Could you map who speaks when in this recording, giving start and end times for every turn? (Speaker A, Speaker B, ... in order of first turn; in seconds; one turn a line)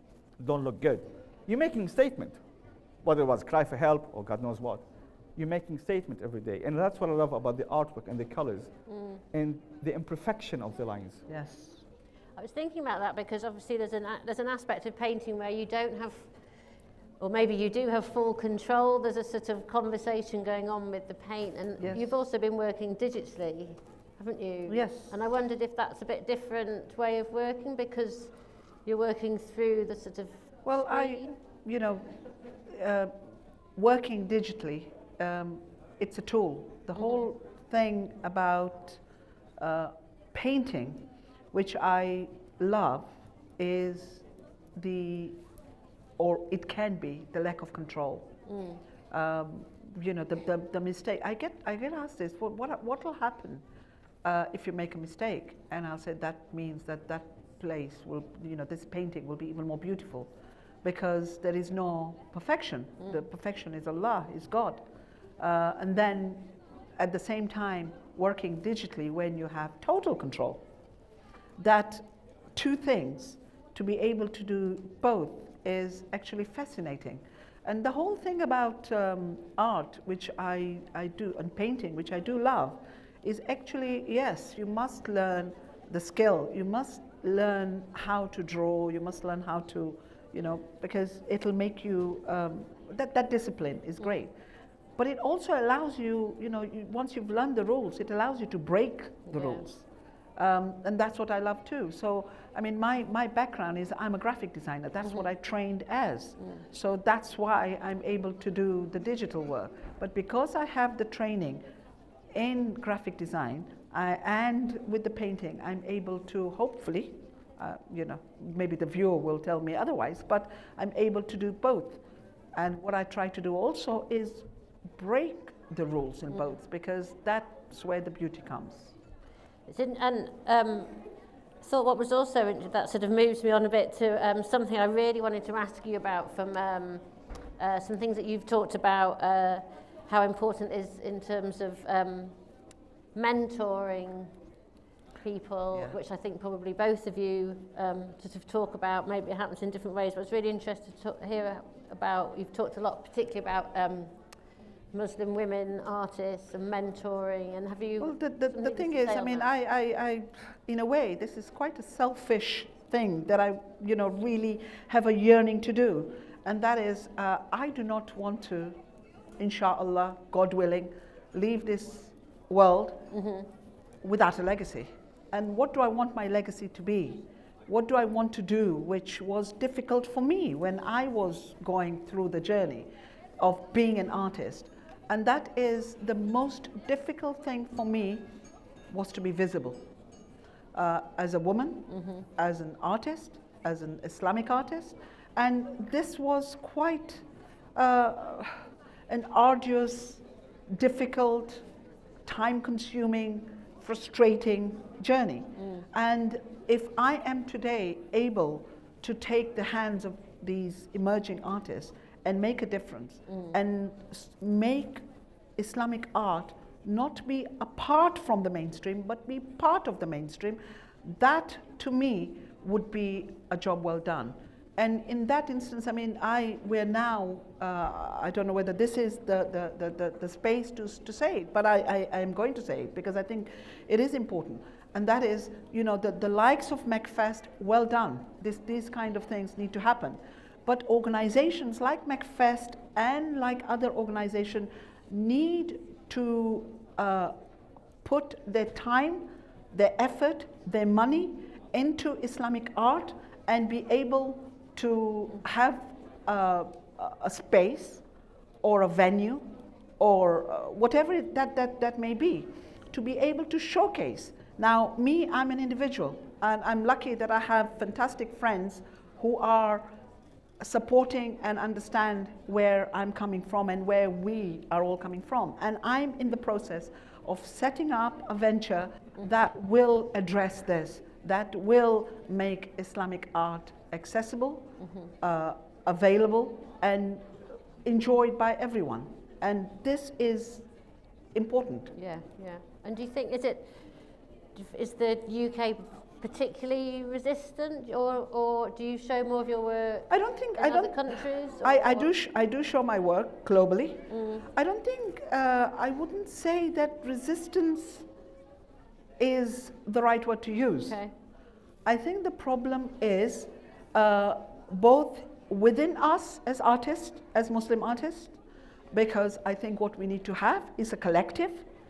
Speaker A: 0.4-2.4
Speaker A: 3.0-4.8
Speaker A: 5.4-8.7
Speaker B: 8.9-9.2
Speaker A: 9.3-11.2
Speaker C: 11.3-11.8
Speaker B: 12.4-16.4
Speaker B: 17.2-31.3
Speaker C: 21.8-22.1
Speaker C: 24.7-25.1
Speaker C: 30.6-32.1
Speaker C: 32.7-33.1
Speaker C: 33.8-39.0
Speaker B: 37.0-37.2
Speaker C: 39.6-44.2
Speaker C: 44.8-45.4
Speaker C: 46.2-48.4
Speaker B: 48.5-48.8
Speaker C: 49.1-53.6
Speaker C: 54.2-60.3
Speaker C: 60.8-64.8
Speaker C: 65.4-70.6
Speaker C: 71.6-94.3
Speaker C: 95.0-99.8
Speaker B: 99.3-99.7
Speaker C: 100.4-111.6
Speaker C: 112.3-122.0
Speaker C: 122.5-128.9
Speaker B: 129.7-131.1
Speaker B: 131.6-142.4
Speaker B: 143.1-144.3
Speaker B: 145.2-154.4
Speaker B: 154.9-159.5
Speaker C: 158.0-168.8
Speaker C: 169.4-173.1
Speaker B: 173.1-173.5
Speaker C: 174.0-188.3
Speaker C: 188.9-189.8
Speaker C: 190.7-197.2
Speaker B: 191.9-192.2
Speaker C: 197.8-201.7
Speaker C: 202.2-215.0
Speaker B: 205.6-205.9
Speaker B: 213.3-213.6
Speaker C: 215.6-247.4
Speaker C: 248.0-258.0
Speaker C: 258.6-269.9
Speaker C: 270.6-290.7
Speaker B: 284.8-285.1
Speaker C: 291.3-291.9
Speaker B: 291.9-293.9
Speaker B: 294.6-302.1
Speaker C: 300.1-308.1
Speaker B: 304.1-304.5
Speaker C: 309.2-311.0
Speaker B: 310.8-311.1
Speaker C: 311.9-318.4
Speaker C: 318.9-321.7